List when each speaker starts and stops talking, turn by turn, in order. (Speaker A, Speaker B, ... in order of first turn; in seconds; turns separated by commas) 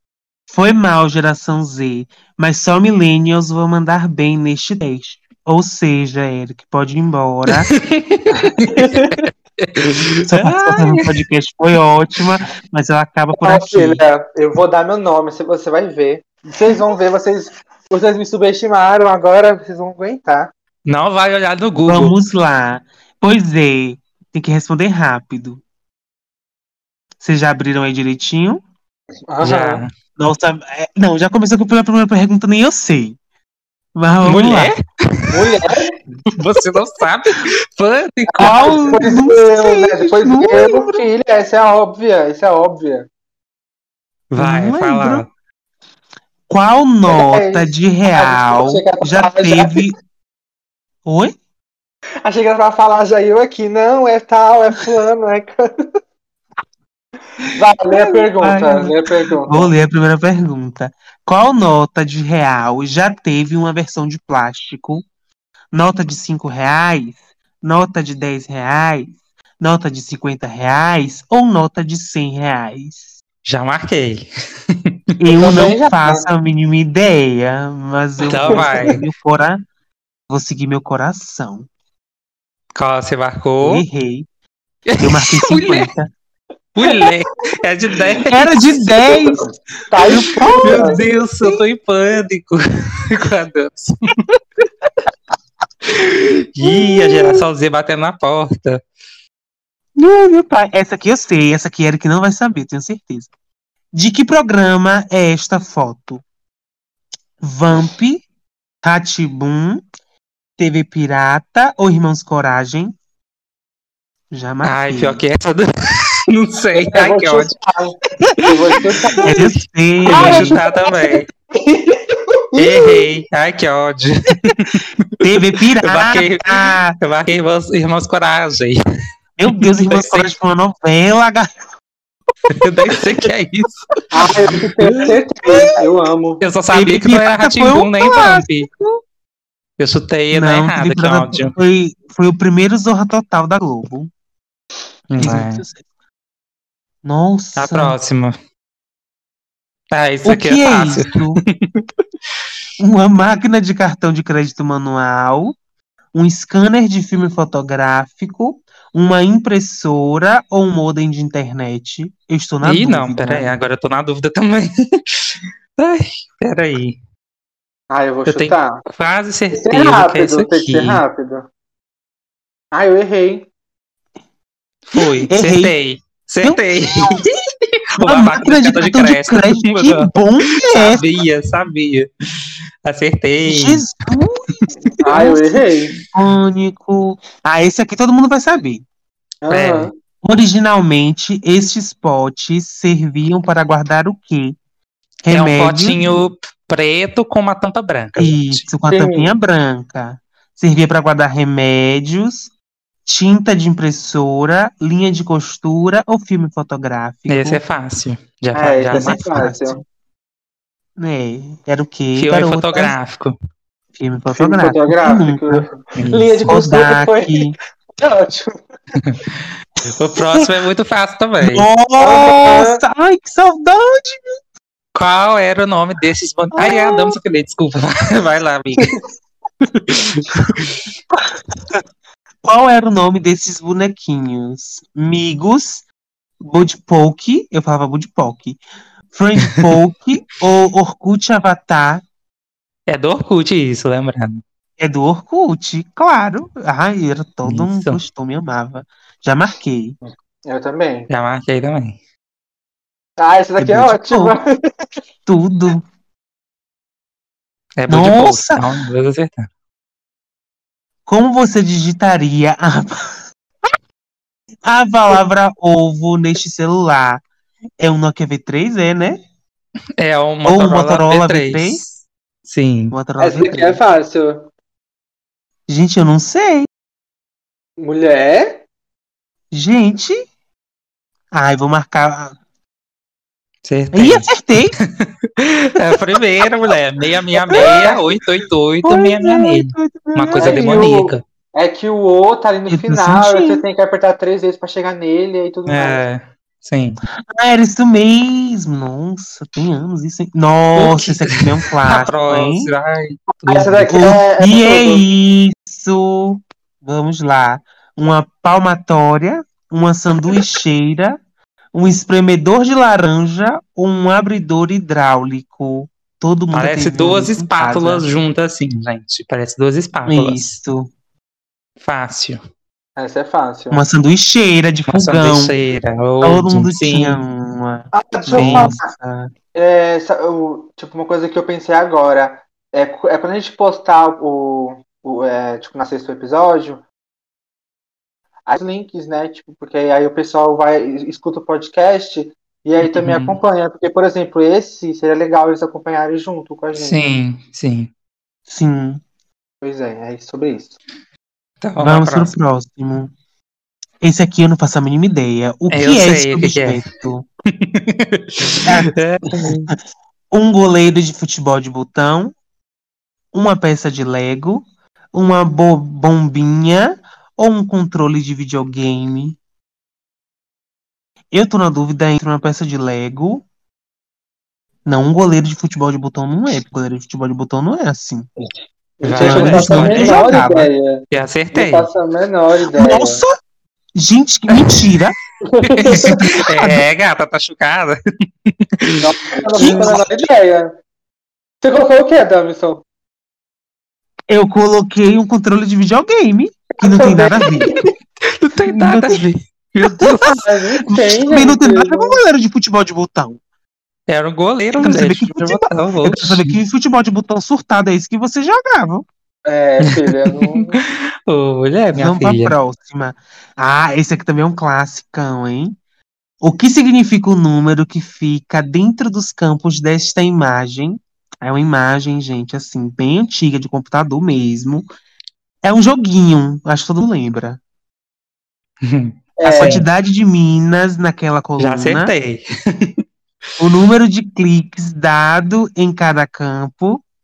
Speaker A: 0.5-7.7, Speaker B: 7.6-11.2, Speaker C: 8.3-9.3, Speaker A: 10.3-14.1, Speaker C: 13.4-20.5, Speaker B: 20.9-22.1, Speaker A: 21.9-25.6, Speaker A: 27.2-28.6, Speaker C: 29.3-29.9, Speaker B: 29.4-29.9, Speaker A: 30.2-33.2, Speaker A: 34.0-34.7, Speaker B: 34.2-35.5, Speaker C: 35.3-36.0, Speaker B: 36.3-39.0, Speaker C: 38.3-43.1, Speaker A: 38.4-41.0, Speaker B: 44.3-45.3, Speaker A: 44.4-45.3, Speaker A: 46.5-50.0, Speaker C: 47.1-49.9, Speaker A: 51.1-51.3, Speaker C: 52.2-55.9, Speaker C: 57.5-59.7, Speaker A: 57.9-65.0, Speaker A: 65.7-73.1, Speaker B: 73.5-75.1, Speaker A: 75.2-79.6, Speaker C: 75.4-76.3, Speaker B: 78.3-79.0, Speaker A: 80.3-81.7, Speaker B: 82.8-83.8, Speaker A: 83.6-84.3, Speaker B: 84.9-85.9, Speaker A: 85.0-86.1, Speaker B: 86.8-88.8, Speaker C: 86.8-87.1, Speaker A: 88.2-89.4, Speaker C: 89.0-91.0, Speaker A: 90.1-91.6, Speaker B: 90.6-94.2, Speaker B: 95.9-98.8, Speaker A: 96.6-97.4, Speaker A: 100.0-103.3, Speaker A: 103.9-106.2, Speaker A: 107.4-108.2, Speaker A: 108.8-109.8, Speaker A: 110.6-112.9, Speaker A: 114.3-115.2, Speaker B: 114.6-117.6, Speaker C: 116.8-119.3, Speaker B: 119.2-121.3, Speaker A: 119.2-120.6, Speaker C: 120.1-123.1, Speaker B: 122.6-125.3, Speaker A: 125.2-127.0, Speaker B: 125.8-128.8, Speaker A: 129.4-131.5, Speaker B: 129.6-130.3, Speaker B: 132.6-134.6, Speaker C: 134.1-136.4, Speaker B: 136.4-138.7, Speaker A: 136.7-139.0, Speaker B: 139.8-141.6, Speaker A: 140.3-144.1, Speaker B: 145.1-145.6, Speaker A: 145.2-145.8, Speaker A: 147.0-148.0, Speaker B: 147.6-148.4, Speaker B: 149.9-151.9, Speaker A: 150.2-151.4, Speaker A: 152.8-155.6, Speaker A: 156.1-163.5, Speaker B: 162.6-167.0, Speaker C: 167.9-168.8, Speaker B: 168.3-171.0, Speaker C: 169.5-171.5, Speaker C: 172.7-173.5, Speaker B: 174.9-177.3, Speaker A: 175.0-175.8, Speaker B: 178.0-180.1, Speaker A: 178.0-181.1, Speaker B: 180.7-183.8, Speaker A: 183.5-188.8, Speaker B: 184.8-185.2, Speaker C: 185.0-185.9, Speaker C: 189.4-189.9, Speaker B: 189.5-189.9, Speaker A: 190.2-194.6, Speaker A: 195.2-196.0, Speaker B: 195.3-198.7, Speaker A: 198.2-202.5, Speaker C: 198.9-199.3, Speaker A: 203.1-207.6, Speaker B: 207.3-209.2, Speaker C: 208.6-209.8, Speaker A: 208.9-209.8, Speaker A: 211.0-212.9, Speaker B: 212.2-213.4, Speaker A: 213.9-215.7, Speaker C: 214.3-217.4, Speaker B: 216.0-216.3, Speaker A: 216.4-217.6, Speaker C: 218.0-218.6, Speaker B: 219.0-219.2, Speaker B: 219.8-221.7, Speaker A: 220.2-220.5, Speaker A: 221.4-224.3, Speaker C: 222.0-222.8, Speaker B: 224.9-229.0, Speaker A: 226.6-227.2, Speaker B: 229.7-230.8, Speaker A: 231.1-231.8, Speaker A: 232.4-235.8, Speaker A: 236.4-238.6, Speaker A: 239.1-242.0, Speaker B: 242.9-244.4, Speaker A: 244.8-250.0, Speaker B: 247.4-248.0, Speaker C: 250.0-251.1, Speaker B: 251.1-252.0, Speaker C: 253.2-254.7, Speaker A: 253.6-254.4, Speaker A: 255.3-255.8, Speaker B: 257.8-259.5, Speaker A: 257.9-258.6, Speaker A: 261.1-263.2, Speaker A: 264.6-267.2, Speaker A: 267.8-269.2, Speaker B: 270.0-271.9, Speaker A: 270.4-271.8, Speaker B: 272.5-272.9, Speaker A: 272.9-273.8, Speaker C: 273.2-274.5, Speaker A: 275.7-276.7, Speaker C: 277.8-278.6, Speaker A: 279.5-280.2, Speaker A: 281.3-282.4, Speaker B: 283.6-291.2, Speaker A: 283.9-284.8, Speaker A: 287.5-288.0, Speaker C: 287.6-287.9, Speaker A: 288.8-290.8, Speaker C: 290.4-296.0, Speaker A: 292.7-293.6, Speaker B: 295.7-297.0, Speaker A: 297.3-302.7, Speaker B: 300.8-303.9, Speaker C: 303.4-305.1, Speaker A: 303.9-311.2, Speaker A: 311.7-318.1, Speaker B: 316.5-320.6, Speaker A: 320.1-320.9, Speaker B: 321.8-322.4, Speaker C: 323.0-323.8, Speaker A: 323.7-325.5, Speaker B: 324.9-327.2, Speaker A: 326.2-329.3, Speaker C: 327.9-328.9, Speaker B: 328.4-328.8, Speaker C: 329.5-336.8, Speaker C: 338.5-347.1, Speaker B: 342.9-343.4, Speaker B: 346.8-347.9, Speaker A: 348.5-349.0, Speaker C: 349.6-350.8, Speaker B: 351.6-352.3, Speaker A: 351.8-353.1, Speaker A: 354.0-357.3, Speaker B: 355.7-356.8, Speaker B: 357.6-359.7, Speaker A: 358.6-359.7, Speaker A: 360.3-362.3, Speaker A: 363.3-369.4, Speaker A: 371.3-373.4, Speaker A: 374.9-378.3, Speaker C: 379.0-381.0, Speaker B: 379.0-380.2, Speaker A: 379.2-380.7, Speaker B: 381.1-381.9, Speaker C: 381.5-383.2, Speaker A: 382.7-383.4, Speaker A: 384.0-385.2, Speaker B: 384.5-385.0, Speaker C: 385.4-386.3, Speaker B: 385.7-390.0, Speaker A: 385.9-386.9, Speaker C: 389.0-390.7, Speaker A: 389.6-390.3, Speaker C: 391.6-392.8, Speaker A: 394.3-397.7, Speaker C: 396.8-397.9, Speaker B: 398.4-400.5, Speaker A: 398.7-399.2, Speaker A: 399.8-403.4, Speaker C: 400.4-402.2, Speaker B: 404.1-406.6, Speaker A: 404.8-409.1, Speaker C: 409.5-410.8, Speaker B: 409.9-412.6, Speaker A: 411.9-415.8, Speaker A: 416.4-424.9, Speaker A: 425.6-427.6, Speaker B: 428.8-429.8, Speaker C: 429.4-429.9, Speaker A: 429.4-432.1, Speaker B: 431.6-433.0, Speaker A: 433.6-437.0